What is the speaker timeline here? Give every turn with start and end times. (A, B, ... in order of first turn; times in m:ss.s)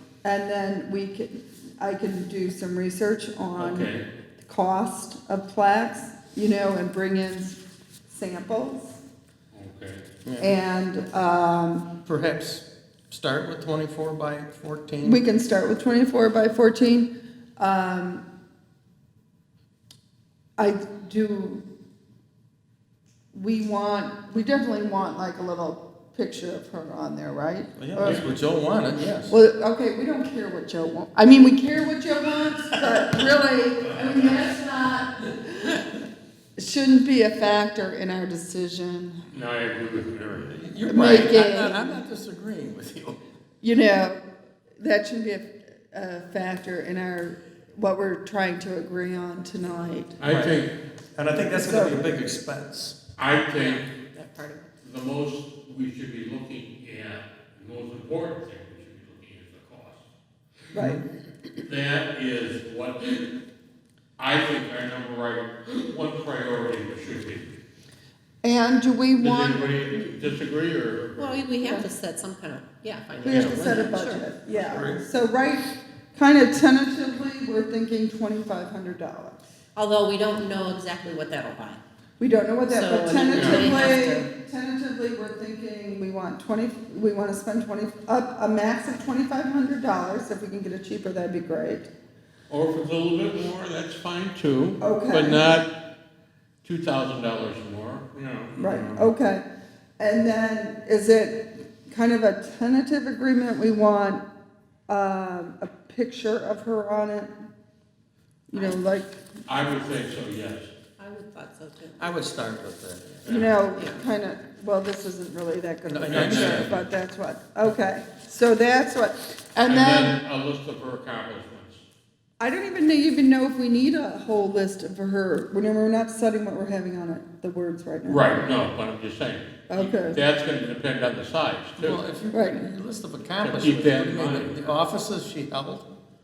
0:00.2-0:09.0 A
0:03.6-0:04.0 B
0:09.5-0:10.0 B
0:10.2-0:10.6 C
0:10.4-0:11.9 A
0:12.0-0:15.2 C
0:15.0-0:18.2 A
0:20.6-0:21.6 A
0:23.3-0:28.4 A
0:27.8-0:29.4 C
0:28.0-0:28.3 B
0:29.3-0:35.8 A
0:36.6-0:39.2 A
0:39.3-0:40.6 B
0:40.5-0:43.2 C
0:40.9-0:41.9 A
0:43.6-0:44.2 A
0:44.8-0:50.2 A
0:50.2-0:50.7 B
0:50.2-0:50.6 C
0:51.1-0:53.0 C
0:51.4-0:52.0 A
0:53.2-0:53.9 B
0:53.4-0:54.7 D
0:54.8-1:00.0 B
1:00.7-1:01.0 C
1:00.7-1:01.0 A
1:01.6-1:03.3 B
1:04.2-1:07.5 B
1:08.4-1:10.3 A
1:09.2-1:11.4 B
1:11.2-1:14.3 D
1:11.6-1:11.9 A
1:13.2-1:19.4 A
1:13.2-1:13.7 B
1:14.5-1:15.0 C
1:19.8-1:21.8 D
1:22.2-1:31.9 A
1:22.7-1:24.3 D
1:23.3-1:23.8 B
1:32.5-1:35.7 B
1:34.8-1:35.5 A
1:36.6-1:39.1 B
1:38.6-1:39.4 A
1:40.0-1:44.2 A
1:44.9-1:47.4 A
1:48.5-1:49.2 A
1:48.5-1:48.8 D
1:49.5-1:50.7 B
1:51.0-1:52.2 D
1:52.0-1:53.3 C
1:53.2-1:53.6 B
1:53.2-2:00.2 A
1:53.7-1:54.0 D
1:55.8-1:56.8 C
1:56.1-1:56.8 B
1:59.6-2:01.8 B
2:02.4-2:08.4 A
2:08.0-2:12.0 B
2:09.7-2:10.2 A
2:11.8-2:15.9 C
2:12.3-2:12.7 A
2:13.4-2:14.8 B